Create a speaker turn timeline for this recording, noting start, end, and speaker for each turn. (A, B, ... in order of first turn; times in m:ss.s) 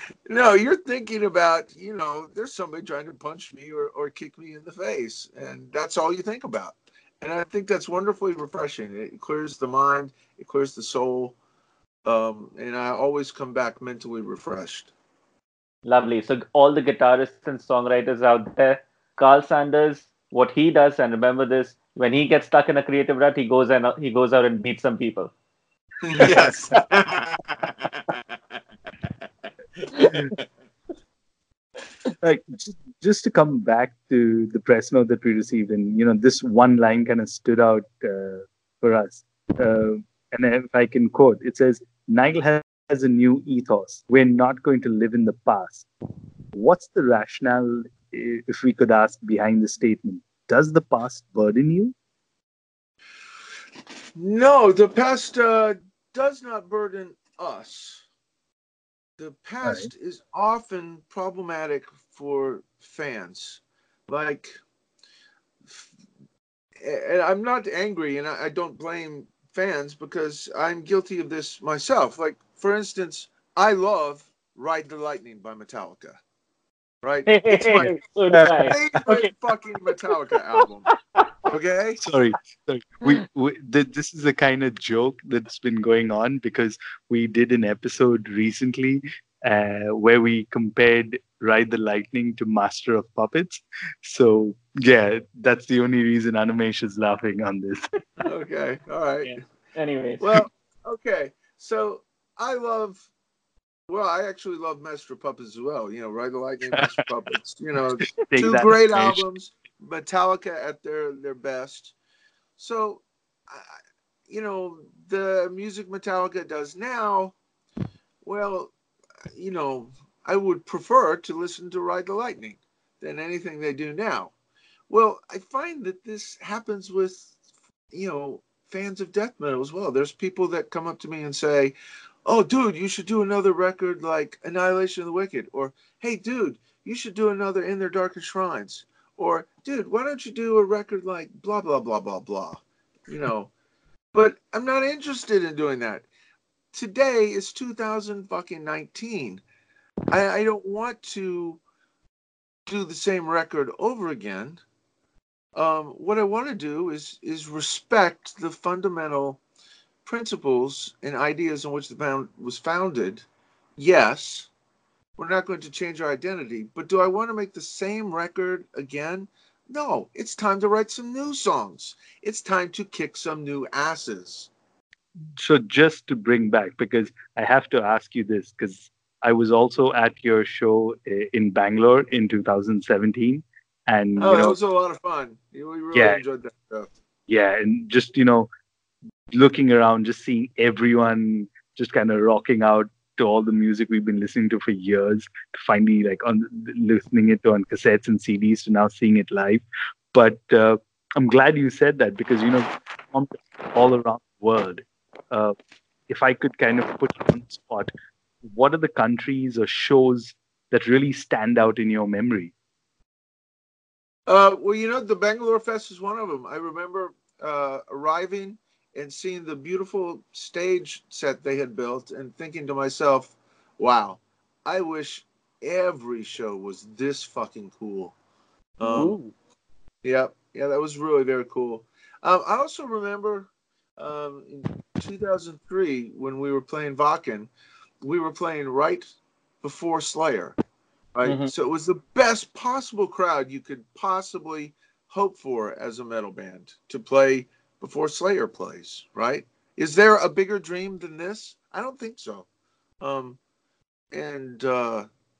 0:00.3-0:11.4 A
0:12.0-0:14.9 A
0:15.8-0:25.3 B
0:26.0-0:27.7 A
0:32.2-0:45.9 C
0:46.5-0:51.9 C
0:54.2-0:58.0 A
0:59.2-1:04.5 A
1:05.6-1:05.9 A
1:06.8-1:16.2 A
1:17.0-1:17.9 A
1:17.3-1:19.3 B
1:18.5-1:20.9 A
1:21.5-1:22.0 A
1:22.0-1:37.8 C
1:38.2-1:39.4 A
1:39.8-1:40.2 B
1:40.2-1:43.1 A
1:43.9-1:51.9 A
1:48.3-1:49.2 C
1:52.6-1:53.8 A
1:54.3-1:57.4 A
1:58.2-1:58.7 A
1:59.3-2:04.3 A
2:04.9-2:07.4 A
2:07.9-2:23.5 A
2:24.1-2:26.1 A
2:26.7-2:29.4 A
2:30.1-2:31.6 A
2:32.7-2:34.6 A
2:35.6-2:39.4 A
2:40.0-2:44.5 A
2:45.2-2:54.5 A
2:55.4-3:04.6 C
3:04.2-3:06.9 A
3:07.3-3:08.5 C
3:09.4-3:19.6 C
3:20.1-3:25.5 C
3:26.1-3:27.9 C
3:28.5-3:32.5 C
3:34.3-3:48.2 A
3:48.8-3:49.1 A
3:48.8-3:49.2 B
3:50.0-3:57.5 A
3:58.0-3:59.1 A
3:59.6-4:00.6 A
4:01.1-4:12.5 A
4:01.2-4:01.5 B
4:13.0-4:13.4 A
4:14.1-4:15.1 A